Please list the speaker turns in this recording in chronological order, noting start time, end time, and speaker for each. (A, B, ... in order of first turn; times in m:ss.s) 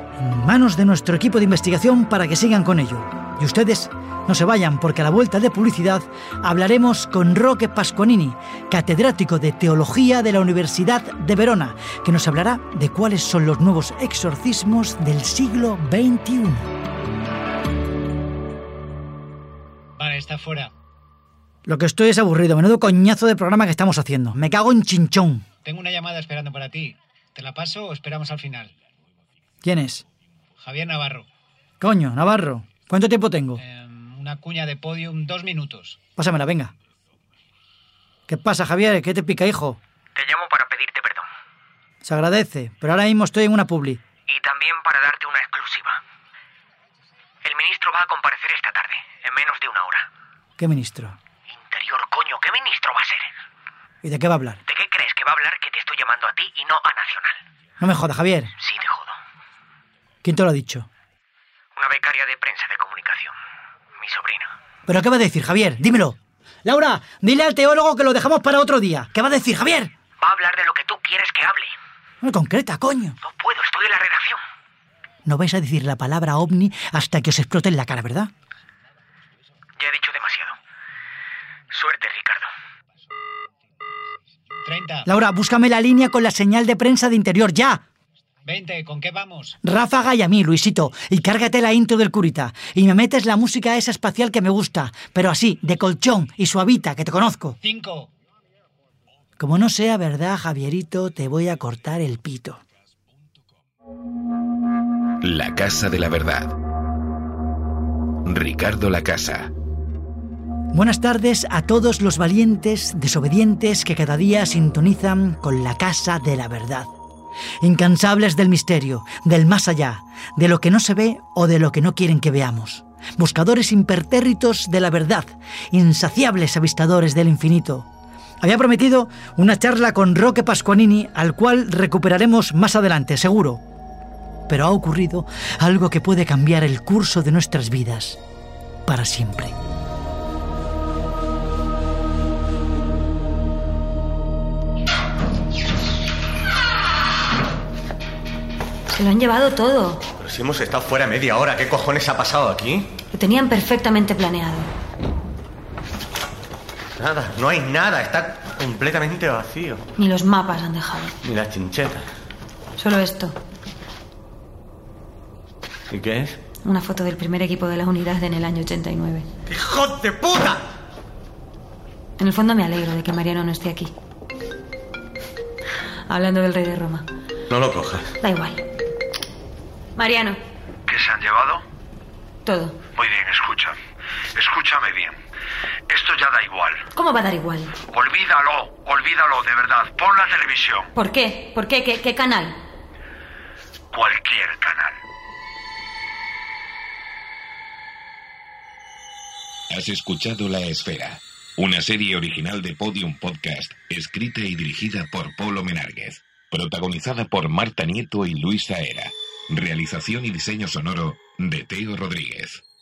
0:00.2-0:16.7 A
0:20.0-0:20.7 B
0:21.7-0:25.4 A
0:25.6-0:28.7 B
0:29.6-0:30.0 A
0:30.6-0:31.3 B
0:31.8-0:33.6 A
0:33.6-0:36.0 B
0:36.2-0:36.7 A
0:38.3-0:39.8 A
0:40.2-0:41.3 C
0:42.0-0:44.0 A
0:44.3-0:46.0 C
0:47.4-0:50.1 C
0:50.6-0:51.2 A
0:51.5-0:53.3 C
0:54.0-0:54.6 A
0:54.7-0:57.4 C
0:57.8-0:58.5 A
0:58.6-0:59.2 C
1:00.2-1:00.9 A
1:01.8-1:03.3 C
1:04.0-1:04.5 C
1:04.9-1:09.9 A
1:10.2-1:11.7 C
1:12.2-1:13.2 A
1:13.2-1:14.4 C
1:15.3-1:18.3 A
1:19.8-1:20.6 C
1:21.7-1:22.5 C
1:24.6-1:25.1 B
1:25.1-1:27.8 A
1:28.4-1:29.6 B
1:29.6-1:37.6 A
1:37.6-1:38.1 B
1:39.4-1:42.6 A
1:45.2-1:46.6 D
1:48.2-1:49.5 D
1:50.7-1:56.9 A
1:57.6-2:07.9 A
2:08.4-2:13.6 A
2:14.5-2:18.2 A
2:18.9-2:19.5 A
2:28.9-2:30.0 E
2:30.2-2:32.9 F
2:33.1-2:34.7 E
2:37.0-2:39.9 F
2:40.0-2:41.2 E
2:41.2-2:42.1 F
2:42.8-2:43.4 E
2:45.9-2:46.4 F
2:46.6-2:49.3 E
2:49.5-2:50.6 F
2:52.2-2:53.9 E
2:56.1-2:57.1 E
2:57.5-2:58.2 F
2:58.2-2:58.6 E
3:00.0-3:00.4 E
3:00.9-3:01.6 G
3:02.4-3:02.8 E
3:02.9-3:03.8 G
3:04.4-3:05.2 G
3:05.9-3:06.9 G
3:07.0-3:07.8 E
3:07.9-3:10.9 G
3:11.0-3:12.6 E
3:13.9-3:15.0 G
3:19.7-3:32.6 D